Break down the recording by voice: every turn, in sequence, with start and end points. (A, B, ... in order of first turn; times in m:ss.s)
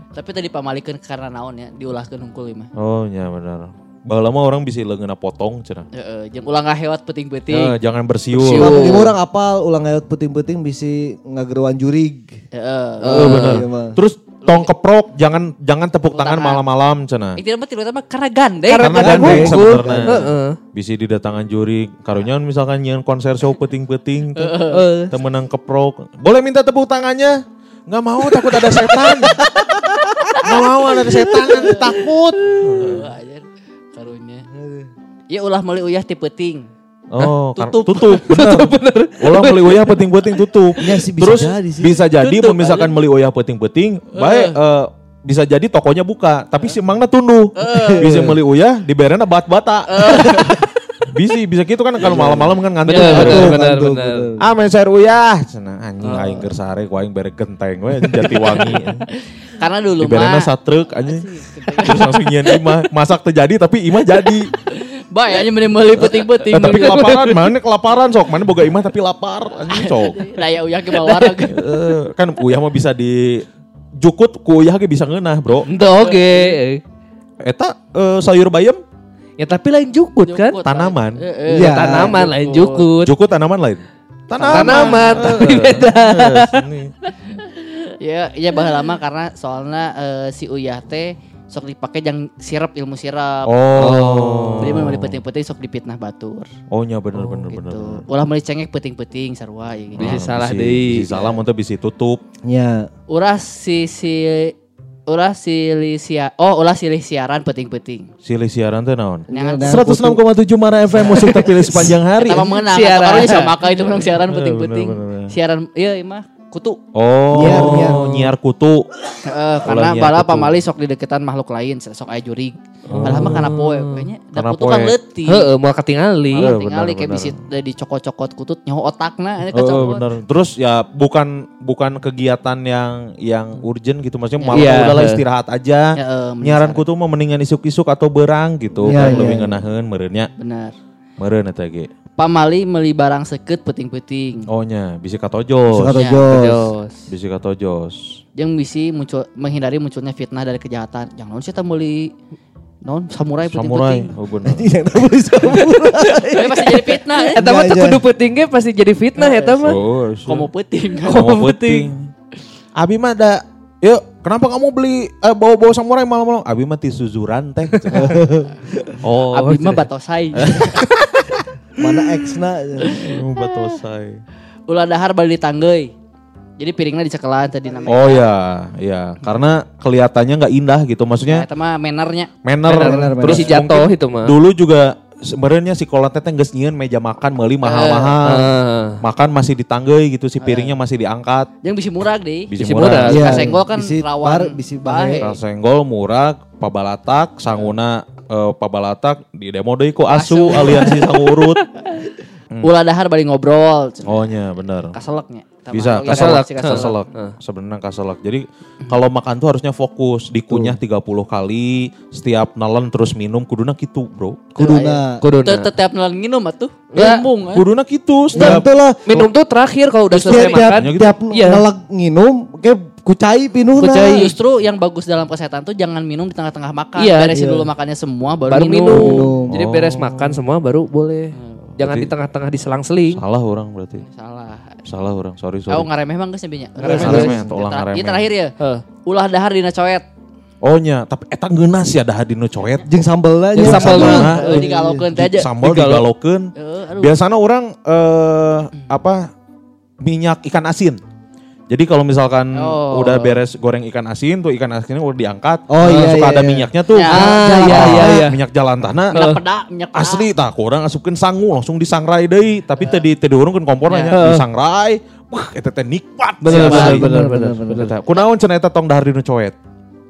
0:00.1-0:02.7 A
0:02.7-0:05.9 B
0:05.9-0:07.7 A
0:07.5-0:08.9 B
0:08.4-0:09.0 A
0:08.4-0:09.1 C
0:08.5-0:12.4 D
0:12.5-0:13.5 A
0:13.0-0:13.6 C
0:13.1-0:17.4 B
0:13.4-0:14.0 D
0:14.4-0:14.7 A
0:16.1-0:16.6 A
0:17.4-0:19.0 A
0:18.7-0:20.6 C
0:18.8-0:29.4 B
0:18.9-0:20.3 D
0:24.4-0:24.8 A
0:24.7-0:25.1 C
0:28.4-0:29.3 C
0:29.4-0:30.4 D
0:30.3-0:33.1 B
0:31.4-0:31.8 C
0:31.5-0:32.0 A
0:32.6-0:34.4 A
0:34.5-0:34.9 D
0:35.3-0:36.7 A
0:37.1-0:50.6 B
0:37.5-0:38.2 A
0:38.0-0:40.4 C
0:40.8-0:42.0 D
0:42.1-0:42.9 A
0:44.1-0:44.6 A
0:47.6-0:48.2 A
0:47.8-0:48.4 D
0:49.9-0:50.6 A
0:51.1-0:53.5 B
0:52.0-0:54.5 D
0:52.8-0:54.2 C
0:54.4-0:59.0 B
0:56.0-0:56.5 C
0:58.0-0:58.8 C
0:59.1-1:02.2 A
1:00.0-1:04.5 B
1:04.6-1:07.2 A
1:06.0-1:07.5 C
1:06.5-1:10.3 B
1:09.7-1:11.6 A
1:10.9-1:11.4 C
1:11.5-1:13.4 B
1:14.0-1:15.7 B
1:15.7-1:16.8 C
1:15.7-1:16.6 A
1:17.4-1:18.8 B
1:19.4-1:20.6 C
1:20.2-1:22.9 A
1:20.6-1:21.2 B
1:21.5-1:23.1 C
1:21.5-1:22.2 D
1:23.0-1:26.9 B
1:24.4-1:25.5 A
1:24.5-1:26.7 C
1:28.0-1:33.5 A
1:33.4-1:35.2 B
1:33.8-1:35.0 C
1:34.6-1:36.5 A
1:36.7-1:38.0 B
1:37.2-1:40.2 A
1:39.9-1:42.2 B
1:40.0-1:41.1 C
1:42.4-1:42.9 D
1:43.1-1:44.5 A
1:45.1-1:48.1 A
1:48.2-1:52.6 B
1:49.3-1:50.2 D
1:49.3-1:49.8 A
1:51.0-1:56.8 A
1:52.6-1:53.5 C
1:53.9-1:55.3 B
1:56.9-1:58.9 B
1:57.3-1:58.0 D
1:57.4-1:58.2 C
1:59.2-2:05.5 A
1:59.6-2:00.5 B
2:02.9-2:03.5 B
2:02.9-2:04.0 C
2:04.3-2:04.9 B
2:05.3-2:06.5 C
2:06.3-2:10.1 A
2:06.3-2:07.4 B
2:09.5-2:20.3 B
2:14.4-2:15.0 A
2:14.5-2:15.2 C
2:16.0-2:16.8 A
2:18.8-2:19.6 D
2:18.9-2:19.4 A
2:20.4-2:20.7 A
2:21.2-2:21.9 B
2:22.2-2:24.5 A
2:24.5-2:26.0 B
2:25.7-2:26.7 D
2:25.9-2:26.2 A
2:26.2-2:27.0 C
2:27.1-2:28.2 B
2:28.4-2:32.1 A
2:32.8-2:34.1 A
2:33.5-2:34.7 B
2:34.4-2:38.0 D
2:36.3-2:37.4 A
2:37.3-2:39.8 C
2:39.2-2:41.3 A
2:39.6-2:40.5 B
2:41.0-2:41.9 C
2:41.1-2:42.1 B
2:42.8-2:48.2 B
2:47.9-2:48.2 A
2:47.9-2:49.0 D
2:49.0-2:49.6 B
2:49.3-2:50.9 A
2:49.3-2:49.8 C
2:50.4-2:51.4 B
2:51.8-2:53.0 D
2:52.8-2:53.1 A
2:52.9-2:54.2 B
2:54.7-2:55.9 A
2:56.6-2:58.2 A
2:57.8-3:01.5 B
3:01.2-3:02.3 A
3:02.4-3:11.5 B
3:02.6-3:04.3 C
3:02.7-3:03.6 D
3:07.6-3:08.2 A
3:08.2-3:09.0 C
3:10.4-3:10.8 A
3:11.6-3:15.4 A
3:12.5-3:13.4 B
3:12.6-3:13.5 C
3:13.1-3:15.3 D
3:15.2-3:21.6 B
3:20.0-3:21.0 A
3:20.8-3:21.6 C
3:22.6-3:24.3 A
3:24.0-3:25.0 B
3:24.9-3:27.0 A
3:25.7-3:34.8 B
3:26.1-3:27.3 C
3:30.5-3:30.8 D
3:34.6-3:35.2 D
3:34.6-3:37.6 A
3:35.2-3:35.7 C
3:36.9-3:37.3 C
3:37.5-3:38.6 B
3:38.3-3:39.3 D
3:38.3-3:41.6 C
3:40.1-3:44.3 D
3:40.3-3:41.2 B
3:43.8-3:44.3 C
3:43.8-3:49.2 A
3:47.0-3:47.3 C
3:47.3-3:47.7 D
3:48.5-3:53.2 C
3:48.6-3:49.5 D
3:49.5-3:50.4 B
3:51.3-3:51.8 A
3:51.8-3:52.1 B
3:53.1-3:54.0 B
3:54.0-3:54.8 A
3:54.8-3:55.9 B
3:55.7-3:58.5 A
3:56.8-3:57.4 C
3:56.8-3:57.3 D
3:56.8-3:58.2 B
3:59.0-4:00.0 A
4:00.6-4:02.8 B
4:02.8-4:05.1 D
4:03.6-4:04.6 B
4:03.6-4:04.6 C
4:03.9-4:05.5 A
4:05.1-4:09.3 B
4:05.6-4:06.0 C
4:06.6-4:07.2 A
4:10.0-4:11.0 B
4:11.7-4:19.3 B
4:12.5-4:13.4 A
4:15.7-4:18.2 D
4:15.8-4:16.2 C
4:16.9-4:17.3 A
4:17.1-4:18.4 C
4:19.1-4:20.3 A
4:19.1-4:19.4 C
4:19.9-4:27.1 B
4:23.9-4:24.2 A
4:24.1-4:24.4 C
4:26.4-4:27.9 C
4:26.5-4:27.9 D
4:26.5-4:27.0 A
4:27.8-4:29.5 B